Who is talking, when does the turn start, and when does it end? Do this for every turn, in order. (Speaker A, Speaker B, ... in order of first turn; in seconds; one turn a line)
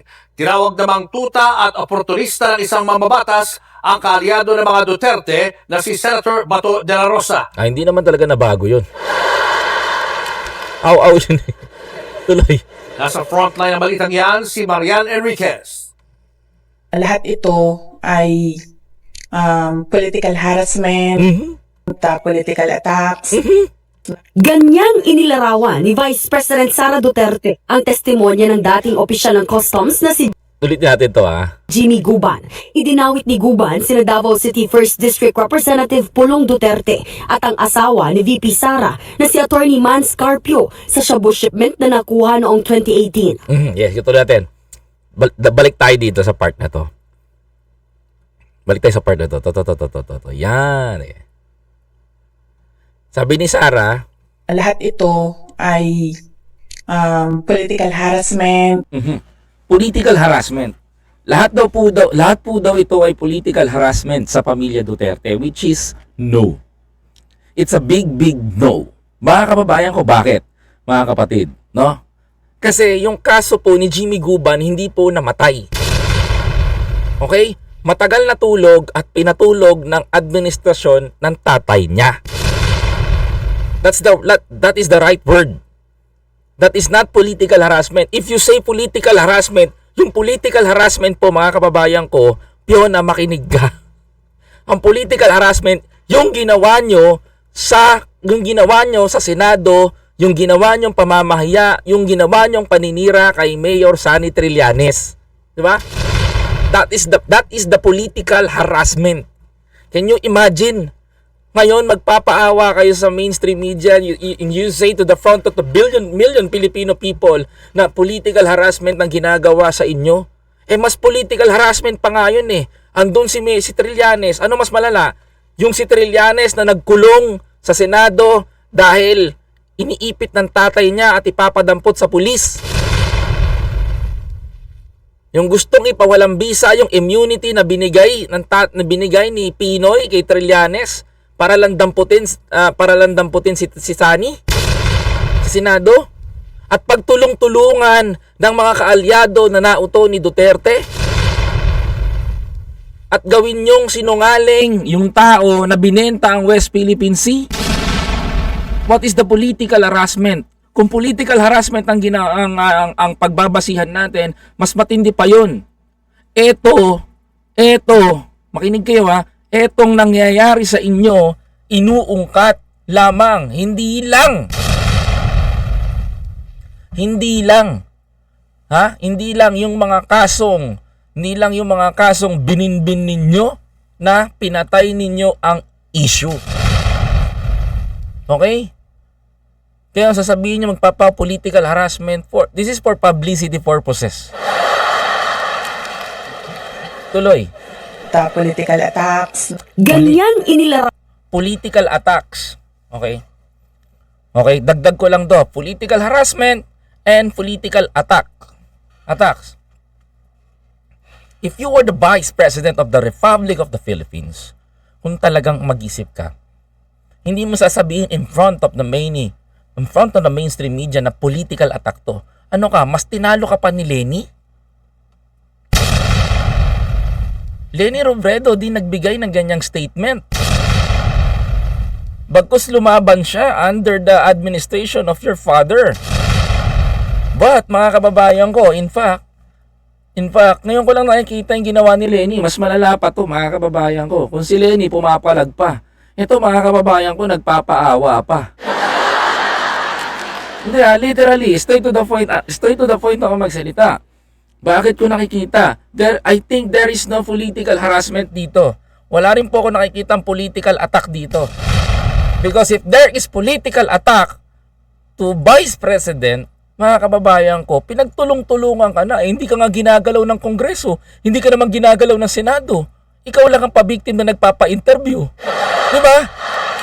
Speaker A: 0.4-7.5
Speaker B: 7.6-8.8
Speaker B: 10.8-11.5
Speaker B: 12.3-12.6
Speaker A: 13.0-15.9
Speaker C: 16.9-18.6
Speaker C: 19.3-21.2
Speaker B: 21.2-21.6
Speaker C: 21.9-23.4
Speaker B: 23.3-23.7
Speaker D: 24.4-30.3
Speaker B: 30.6-31.5
Speaker D: 31.7-43.4
Speaker B: 43.5-44.5
Speaker B: 45.2-46.9
Speaker B: 48.7-51.2
Speaker B: 53.1-54.0
Speaker C: 54.5-56.1
Speaker C: 56.9-58.8
Speaker B: 58.9-60.7
Speaker B: 61.3-66.6
Speaker B: 67.6-72.0
Speaker B: 72.6-75.7
Speaker B: 77.2-82.2
Speaker B: 83.8-85.6
Speaker B: 86.6-93.7
Speaker B: 94.7-105.8
Speaker B: 106.7-109.2
Speaker B: 109.9-110.9
Speaker B: 111.5-132.6
Speaker B: 135.3-144.4
Speaker B: 145.4-146.0
Speaker B: 146.7-150.8
Speaker B: 153.1-157.5
Speaker B: 158.9-165.6
Speaker B: 166.4-167.0
Speaker B: 167.6-174.5
Speaker B: 177.0-177.8
Speaker B: 178.7-186.4
Speaker B: 188.3-188.7
Speaker B: 189.9-194.3
Speaker B: 197.1-197.5
Speaker C: 198.1-199.5
Speaker D: 199.8-200.9
Speaker B: 199.9-200.2
Speaker B: 201.3-203.2
Speaker B: 204.3-208.3
Speaker B: 209.1-209.6
Speaker B: 211.4-214.5
Speaker B: 215.0-216.3
Speaker B: 217.2-224.2
Speaker B: 227.8-230.2
Speaker B: 232.3-235.9
Speaker B: 237.3-239.2
Speaker B: 240.2-248.4
Speaker B: 250.6-254.0
Speaker B: 254.6-261.5
Speaker B: 262.4-264.4
Speaker B: 265.2-275.3
Speaker B: 275.9-276.3